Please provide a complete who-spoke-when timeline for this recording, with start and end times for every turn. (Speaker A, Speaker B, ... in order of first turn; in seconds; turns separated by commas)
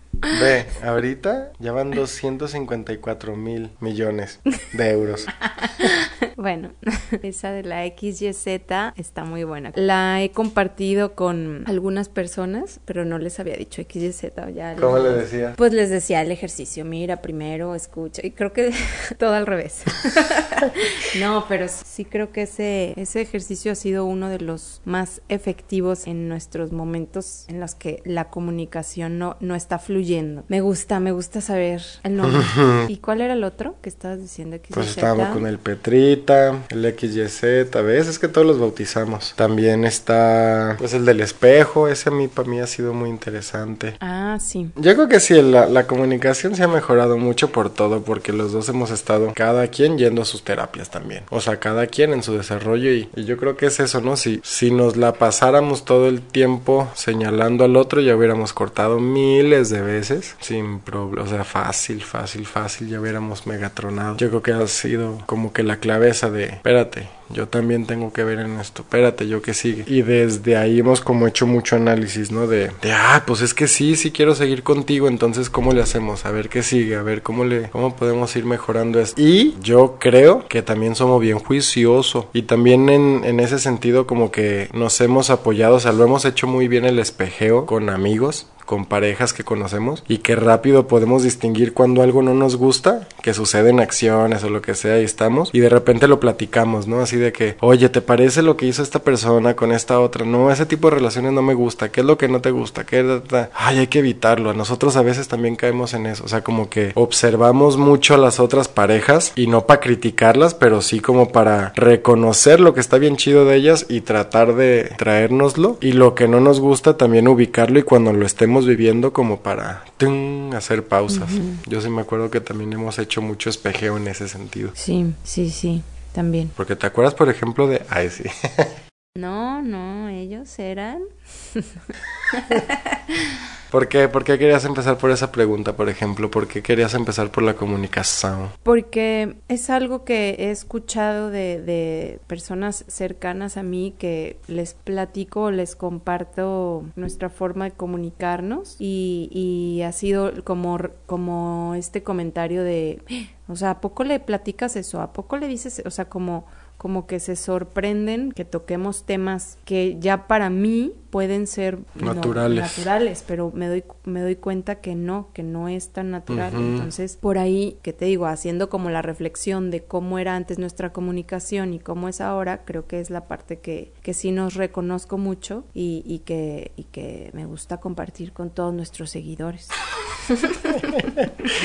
Speaker A: 0.3-5.3, Speaker B: 5.4-35.4, Speaker A: 14.8-15.6, Speaker A: 32.2-32.9, Speaker A: 34.7-44.0, Speaker B: 44.0-44.7, Speaker A: 44.8-124.7, Speaker B: 121.1-121.6, Speaker B: 124.8-126.5, Speaker A: 126.6-128.7, Speaker B: 129.2-133.4, Speaker A: 133.7-138.5, Speaker B: 138.6-181.0, Speaker A: 162.0-162.9, Speaker A: 166.3-166.9, Speaker A: 180.9-181.3